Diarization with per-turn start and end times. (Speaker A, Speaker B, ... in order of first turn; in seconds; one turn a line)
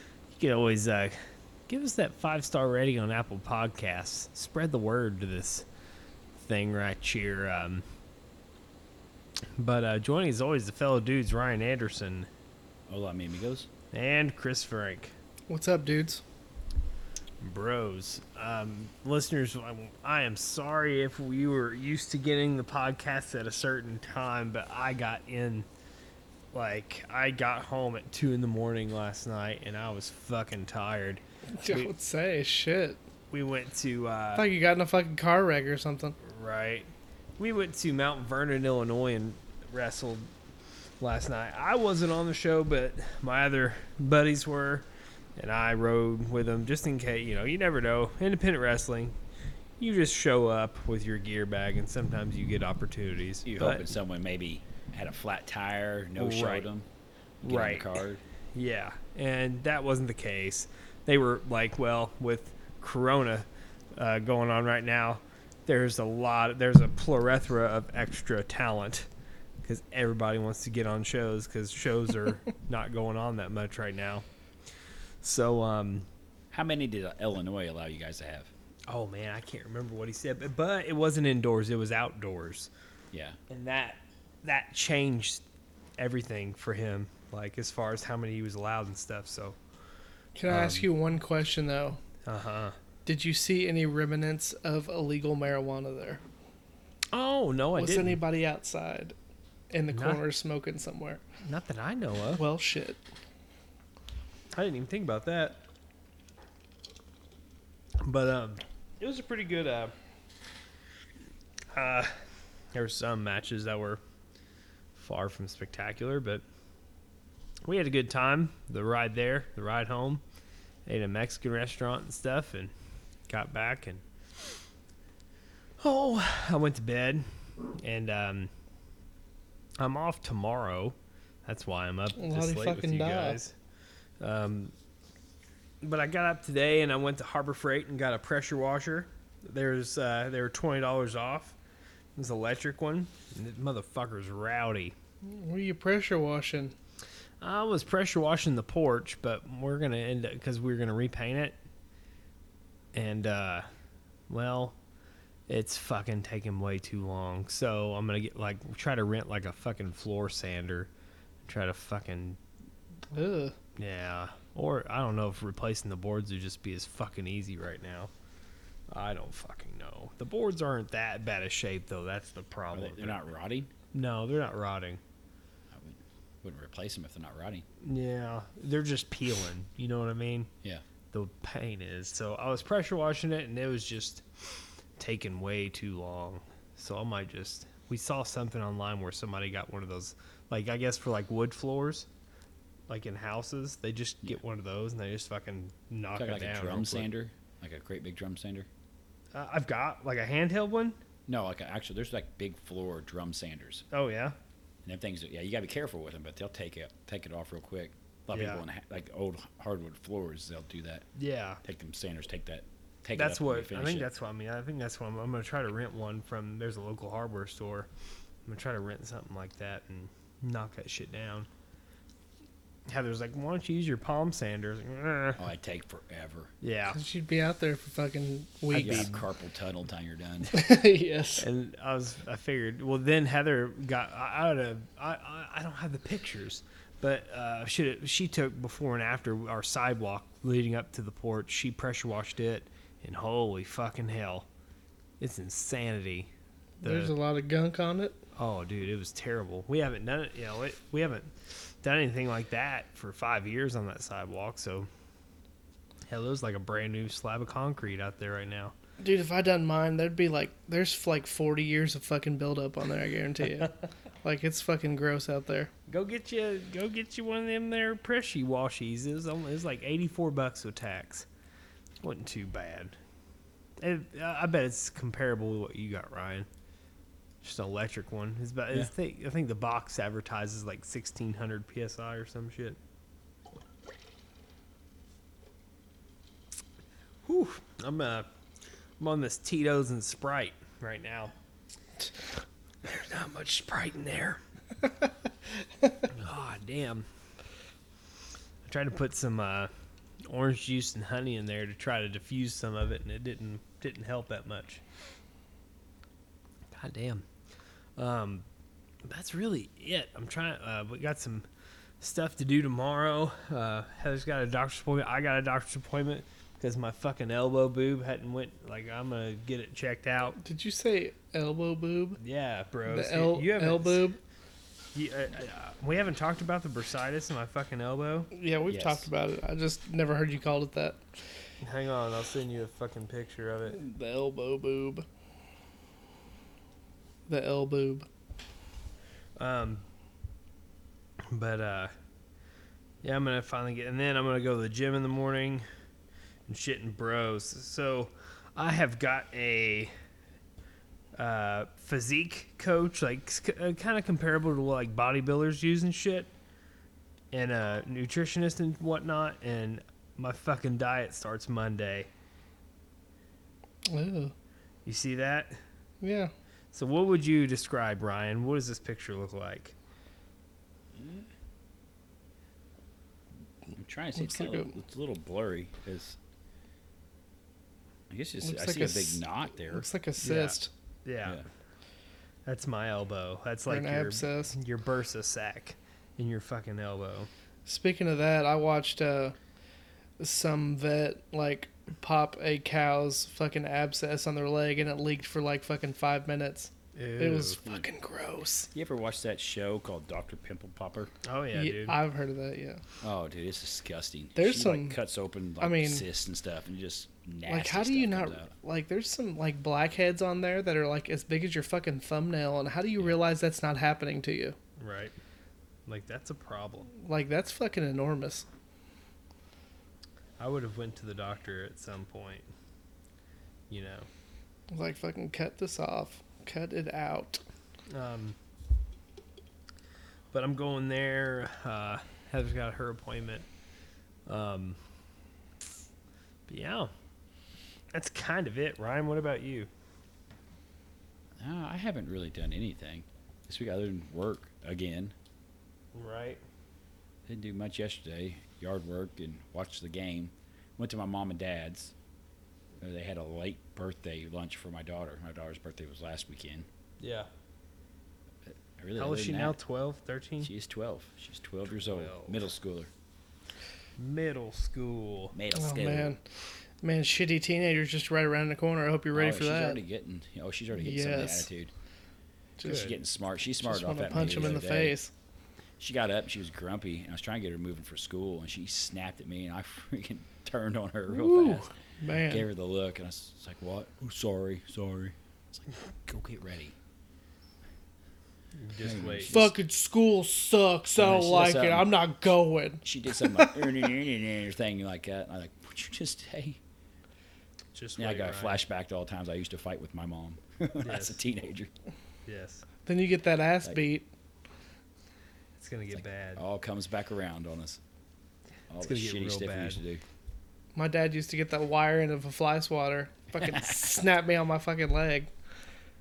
Speaker A: 0.3-5.7
Speaker A: 6.4-7.8
Speaker A: 9.6-12.3
Speaker B: 12.9-13.7
Speaker A: 13.9-15.1
Speaker C: 15.5-16.2
Speaker A: 17.4-25.7
Speaker A: 26.5-31.9
Speaker C: 31.6-33.0
Speaker A: 33.3-34.5
Speaker C: 34.4-36.2
Speaker A: 36.2-40.3
Speaker A: 41.0-49.1
Speaker A: 49.8-53.9
Speaker B: 53.4-56.9
Speaker A: 56.2-56.7
Speaker B: 57.4-58.2
Speaker A: 57.4-58.0
Speaker A: 58.5-69.1
Speaker A: 69.6-74.3
Speaker A: 75.2-76.1
Speaker B: 76.5-78.5
Speaker A: 78.9-82.7
Speaker B: 83.1-83.4
Speaker A: 83.5-85.4
Speaker A: 86.0-89.6
Speaker C: 90.4-92.0
Speaker A: 90.5-90.9
Speaker A: 92.2-92.8
Speaker C: 93.1-96.2
Speaker A: 97.1-98.2
Speaker C: 97.8-99.2
Speaker C: 99.7-101.2
Speaker A: 99.9-100.2
Speaker A: 101.4-102.4
Speaker C: 102.4-103.0
Speaker A: 104.5-105.6
Speaker A: 108.0-109.9
Speaker A: 111.7-112.1
Speaker A: 112.7-114.0
Speaker A: 115.0-116.4
Speaker A: 117.7-120.2
Speaker A: 120.9-122.7
Speaker A: 123.3-124.0
Speaker A: 125.8-127.3
Speaker A: 127.8-128.5
Speaker A: 129.8-133.5
Speaker C: 132.2-133.4
Speaker A: 134.2-134.7
Speaker A: 135.8-141.6
Speaker A: 142.2-144.9
Speaker C: 145.2-146.7
Speaker A: 147.4-151.6
Speaker A: 152.9-153.7
Speaker A: 154.3-154.8
Speaker A: 155.5-160.9
Speaker A: 161.5-162.4
Speaker C: 163.1-163.6
Speaker A: 163.8-168.1
Speaker A: 168.9-173.2
Speaker B: 172.7-173.7
Speaker A: 173.9-175.0
Speaker B: 175.7-177.7
Speaker A: 177.8-180.5
Speaker A: 181.1-192.1
Speaker A: 192.9-197.1
Speaker B: 196.2-198.7
Speaker A: 199.3-201.0
Speaker B: 201.3-203.8
Speaker A: 203.9-204.3
Speaker B: 204.8-211.1
Speaker A: 208.3-208.6
Speaker A: 211.2-211.6
Speaker B: 211.6-214.1
Speaker A: 213.2-217.9
Speaker A: 218.5-221.5
Speaker A: 222.9-225.4
Speaker B: 225.4-226.5
Speaker A: 226.6-227.0
Speaker C: 226.9-229.1
Speaker A: 228.7-229.2
Speaker B: 228.8-230.5
Speaker C: 230.5-231.5
Speaker A: 231.4-244.5
Speaker A: 245.2-246.3
Speaker C: 246.8-248.2
Speaker A: 246.8-247.1
Speaker A: 248.4-254.9
Speaker A: 256.1-258.7
Speaker C: 259.0-263.7
Speaker C: 264.2-265.7
Speaker A: 265.9-271.3
Speaker A: 272.0-273.0
Speaker A: 273.8-276.5
Speaker A: 277.4-282.8
Speaker A: 287.2-288.3
Speaker A: 289.0-291.3
Speaker A: 292.8-294.4
Speaker A: 296.1-297.1
Speaker A: 298.6-299.7
Speaker A: 300.2-304.8
Speaker A: 306.7-307.3
Speaker A: 308.0-308.4
Speaker A: 309.1-311.4
Speaker A: 312.0-320.4
Speaker C: 320.4-322.2
Speaker A: 322.2-324.1
Speaker C: 322.9-324.2
Speaker A: 324.9-328.3
Speaker C: 328.3-331.0
Speaker B: 328.7-329.1
Speaker A: 331.6-333.8
Speaker C: 333.7-335.1
Speaker C: 337.3-338.1
Speaker A: 339.4-339.8
Speaker A: 341.3-341.9
Speaker A: 343.0-345.7
Speaker A: 346.5-349.9
Speaker A: 351.2-356.3
Speaker A: 357.3-362.1
Speaker C: 363.9-364.3
Speaker A: 364.9-365.6
Speaker C: 366.0-366.3
Speaker A: 366.7-369.8
Speaker B: 370.9-371.3
Speaker B: 373.8-376.2
Speaker C: 374.2-374.7
Speaker B: 378.1-379.9
Speaker C: 378.4-380.7
Speaker A: 380.2-381.4
Speaker A: 382.5-387.3
Speaker C: 383.7-384.6
Speaker C: 387.7-389.4
Speaker C: 390.2-398.7
Speaker A: 396.9-397.6
Speaker B: 398.7-401.1
Speaker A: 401.2-402.0
Speaker C: 401.5-402.8
Speaker B: 403.0-408.5
Speaker C: 404.4-405.0
Speaker C: 405.6-406.1
Speaker C: 407.5-414.6
Speaker A: 414.8-415.1
Speaker A: 415.9-416.9
Speaker C: 417.0-418.5
Speaker A: 420.4-422.5
Speaker A: 423.7-424.1
Speaker C: 424.7-427.4
Speaker A: 427.9-428.4
Speaker A: 430.3-433.5
Speaker A: 434.3-434.8
Speaker A: 436.5-436.9
Speaker A: 437.9-439.7
Speaker B: 441.4-445.1
Speaker A: 445.9-446.4
Speaker B: 447.3-451.9
Speaker B: 452.8-456.7
Speaker A: 457.0-457.3
Speaker B: 458.5-459.6
Speaker A: 459.0-460.5
Speaker B: 460.4-462.9
Speaker A: 461.7-462.4
Speaker A: 464.0-465.4
Speaker B: 465.3-466.1
Speaker C: 465.5-466.2
Speaker C: 466.8-469.8
Speaker B: 469.1-471.7
Speaker C: 470.8-471.5
Speaker C: 472.6-472.9
Speaker A: 472.6-472.9
Speaker B: 472.7-474.9
Speaker C: 473.6-475.1
Speaker B: 475.8-481.6
Speaker C: 481.1-482.5
Speaker B: 482.3-486.8
Speaker A: 488.6-489.4
Speaker B: 488.8-489.5
Speaker C: 489.3-493.6
Speaker B: 491.0-491.9
Speaker B: 492.8-496.6
Speaker A: 497.8-498.6
Speaker B: 498.0-501.7
Speaker A: 500.8-501.2
Speaker A: 502.3-502.6
Speaker C: 502.9-504.1
Speaker A: 505.6-506.4
Speaker B: 505.9-507.8
Speaker B: 508.7-510.0
Speaker A: 508.8-509.8
Speaker C: 510.8-515.3
Speaker B: 513.3-514.0